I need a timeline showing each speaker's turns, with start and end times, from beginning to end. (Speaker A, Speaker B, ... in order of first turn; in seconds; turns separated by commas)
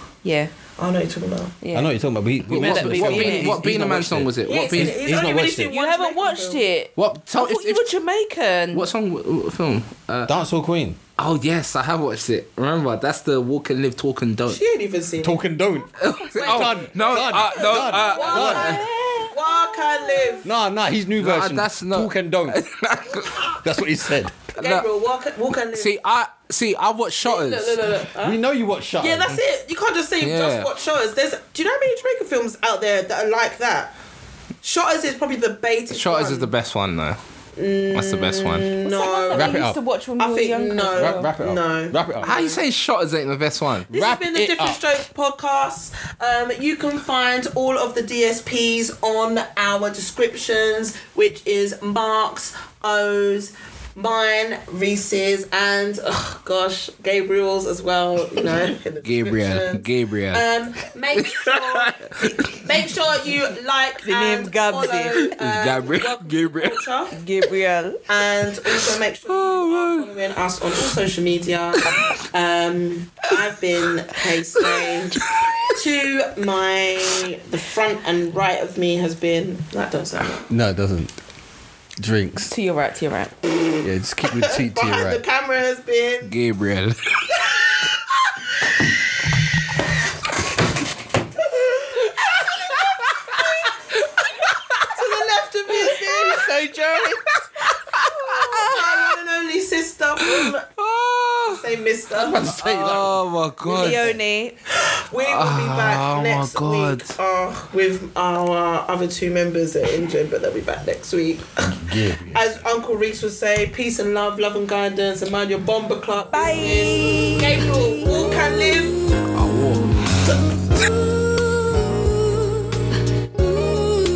Speaker A: 0.2-0.5, Speaker B: 0.8-1.6, Speaker A: 1.6-1.9, Speaker C: 1.7-5.7, Speaker D: 2.5-5.0, Speaker A: 2.5-3.5, Speaker B: 4.4-6.6, Speaker A: 5.7-8.9, Speaker D: 7.0-7.9, Speaker D: 8.7-10.3, Speaker C: 10.3-11.0, Speaker D: 11.2-14.6, Speaker B: 14.5-15.4, Speaker C: 15.2-18.8, Speaker D: 16.0-18.9, Speaker B: 16.4-20.5, Speaker A: 17.9-20.5, Speaker C: 20.4-22.6, Speaker D: 21.2-23.6, Speaker C: 23.5-24.4, Speaker D: 24.6-24.9, Speaker B: 24.6-25.9, Speaker D: 25.7-28.0, Speaker B: 27.2-28.4, Speaker C: 28.2-29.4, Speaker B: 29.0-33.9, Speaker D: 30.2-30.7, Speaker B: 34.6-36.5, Speaker D: 35.9-37.2, Speaker B: 37.6-39.7, Speaker D: 37.9-38.7, Speaker A: 38.8-41.3, Speaker C: 39.3-39.8, Speaker B: 40.2-42.6, Speaker C: 40.9-42.3, Speaker D: 42.2-43.9, Speaker C: 43.9-44.8, Speaker B: 43.9-67.2, Speaker D: 59.0-60.5, Speaker D: 61.1-62.6, Speaker A: 62.2-62.5, Speaker A: 64.0-65.3, Speaker D: 65.4-66.8, Speaker A: 67.2-68.0, Speaker B: 68.1-80.5, Speaker D: 68.7-70.1, Speaker C: 80.5-81.1, Speaker C: 82.0-82.5, Speaker A: 82.5-83.4, Speaker C: 83.8-85.2, Speaker B: 84.3-86.3, Speaker D: 86.2-87.3, Speaker B: 91.5-96.6, Speaker D: 92.2-93.5, Speaker D: 94.5-95.0, Speaker A: 96.2-97.2, Speaker D: 97.0-99.1, Speaker B: 98.0-100.7, Speaker D: 100.2-104.2, Speaker B: 101.5-102.6, Speaker C: 102.1-103.2, Speaker A: 103.7-104.5, Speaker B: 103.7-104.0, Speaker B: 104.8-111.7, Speaker D: 105.1-107.2, Speaker C: 111.6-112.5, Speaker B: 112.3-119.0, Speaker A: 116.3-118.3, Speaker D: 119.3-119.9